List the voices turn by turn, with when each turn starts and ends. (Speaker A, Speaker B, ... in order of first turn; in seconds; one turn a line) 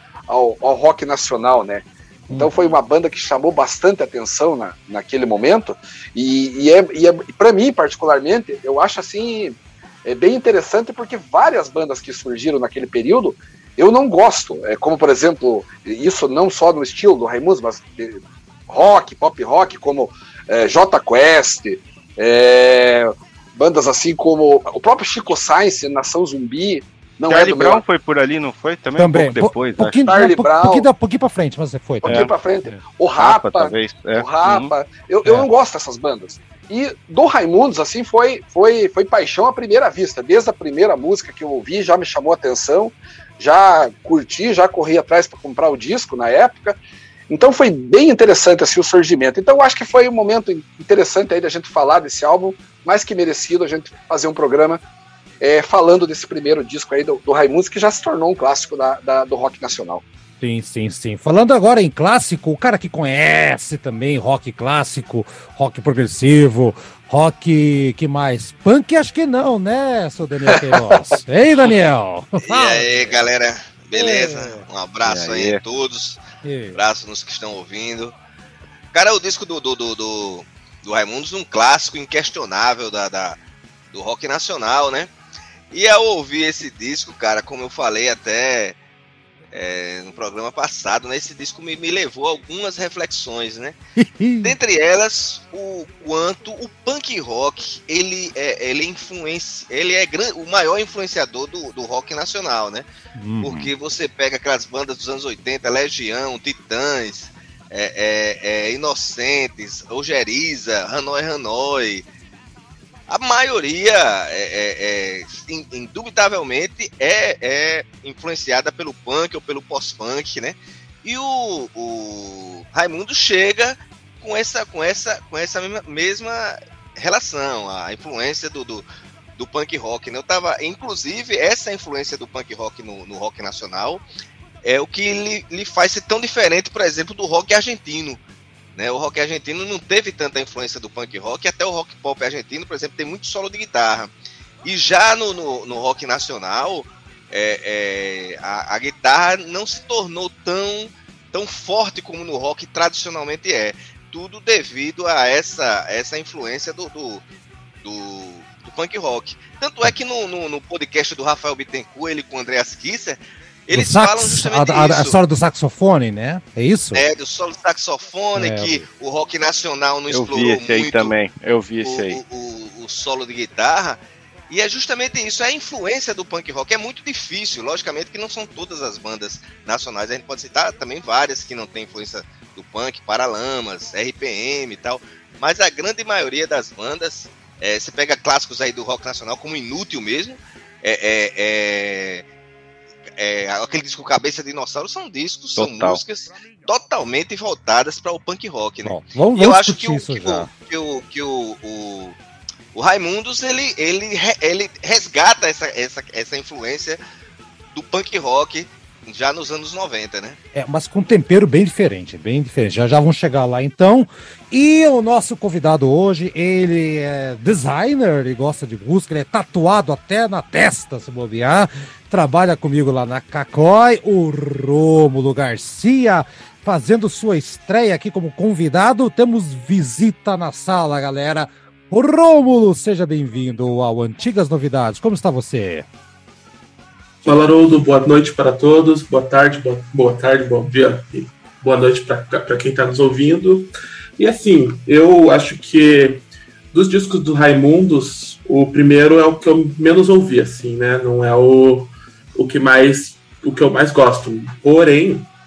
Speaker A: 0.3-27.8
Speaker B: 27.3-30.0
Speaker C: 29.0-32.8
Speaker A: 30.0-30.9
Speaker A: 32.0-46.8
Speaker B: 33.2-34.7
Speaker A: 47.3-54.8
Speaker A: 55.4-60.0
Speaker C: 60.4-73.1
Speaker A: 70.5-71.0
Speaker D: 72.4-76.2
Speaker C: 73.9-74.6
Speaker B: 75.0-75.6
Speaker C: 76.4-76.8
Speaker D: 76.7-78.1
Speaker D: 78.9-83.4
Speaker D: 83.9-85.1
Speaker D: 85.7-88.8
Speaker D: 89.5-93.8
Speaker C: 94.0-94.5
Speaker D: 94.4-102.8
Speaker C: 103.2-103.7
Speaker D: 103.4-112.0
Speaker D: 113.1-134.0
Speaker D: 134.6-138.2
Speaker D: 138.8-144.1
Speaker D: 144.6-157.2
Speaker D: 157.8-165.2
Speaker C: 163.7-167.0
Speaker D: 166.9-171.1
Speaker C: 168.3-168.8
Speaker B: 170.1-172.2
Speaker D: 171.8-174.0
Speaker D: 174.5-192.2
Speaker D: 193.2-202.2
Speaker B: 195.6-196.0
Speaker C: 198.8-200.5
Speaker D: 202.7-207.0
Speaker D: 207.7-210.4
Speaker C: 210.5-235.8
Speaker E: 237.2-255.3